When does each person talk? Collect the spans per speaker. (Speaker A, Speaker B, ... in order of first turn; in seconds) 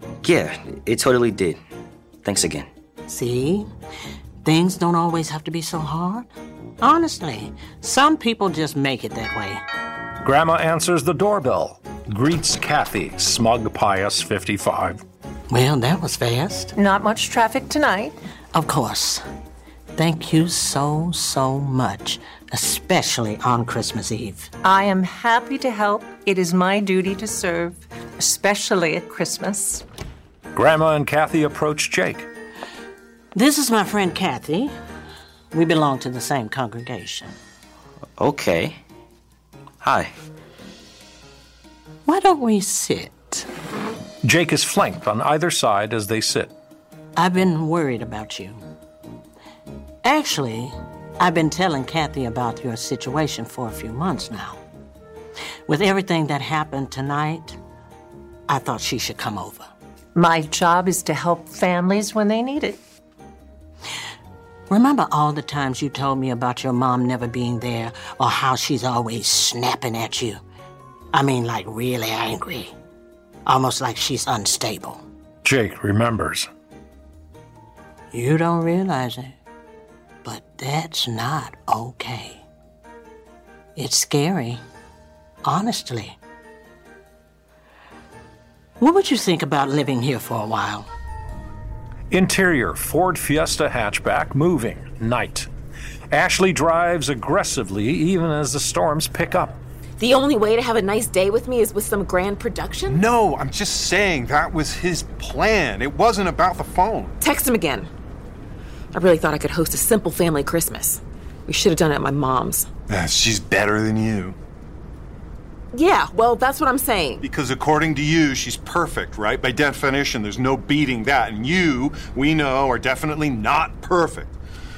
Speaker A: 0.2-1.6, 2.2-2.7, 38.2-38.8, 39.8-40.1
Speaker B: 3.1-3.7, 4.4-6.3, 6.8-9.6, 15.5-16.7, 18.5-19.2, 20.0-24.5, 33.4-34.7, 35.5-37.3, 42.1-43.5, 47.2-48.6, 50.0-54.6, 55.7-57.6, 58.5-59.7, 64.7-70.4, 71.1-72.7, 73.5-75.0, 78.1-79.4, 80.2-82.4, 83.8-84.6, 85.5-86.2, 88.8-90.9
Speaker C: 10.2-15.0, 30.5-32.3, 44.2-46.5, 75.4-76.5, 92.1-95.5, 96.1-99.6
Speaker D: 16.8-18.1, 24.6-29.9, 60.1-62.8
Speaker E: 100.0-103.0, 107.2-107.9, 108.9-112.7, 115.7-117.2
Speaker F: 102.9-107.2, 112.9-114.4, 117.2-124.3